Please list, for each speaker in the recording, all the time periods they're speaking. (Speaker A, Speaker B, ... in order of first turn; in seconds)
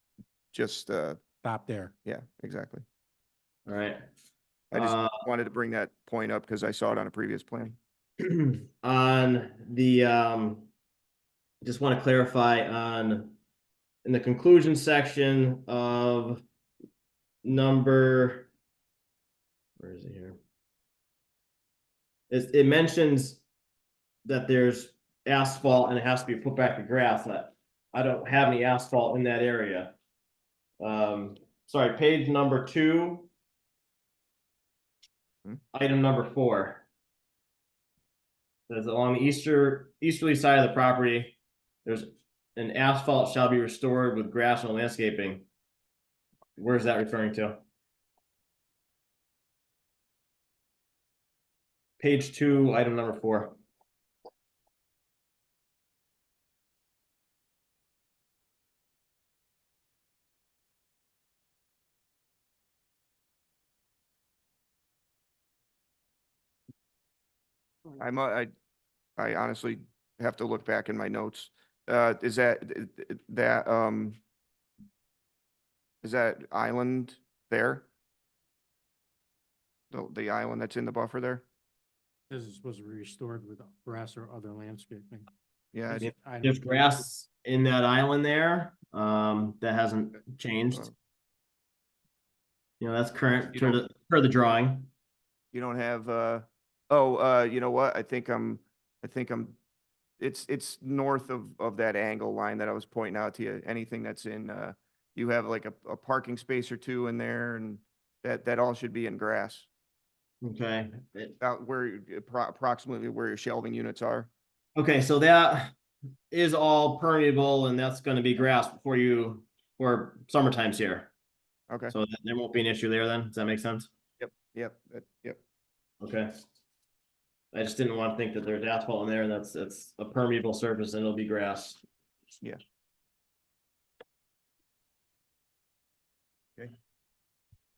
Speaker A: 0.5-1.2, 2.1-2.8, 4.7-7.8, 68.0-68.5, 69.2-74.2, 76.0-77.9, 79.9-81.4, 85.7-86.1, 95.5-99.6, 100.2-109.7, 111.4-114.3, 124.2-125.4
Speaker B: 1.4-1.9, 82.3-85.3, 85.9-87.0
Speaker C: 3.7-4.0, 4.7-5.1, 8.2-10.7, 11.6-13.3, 14.0-16.4, 17.4-18.5, 19.8-20.4, 22.3-23.4, 24.2-29.9, 30.8-33.3, 35.7-36.8, 38.7-45.5, 46.6-47.6, 52.0-53.6, 86.0-90.9, 92.8-94.9, 110.4-111.3, 114.8-115.8, 116.3-121.1, 121.9-123.9, 126.0-126.3, 127.5-131.8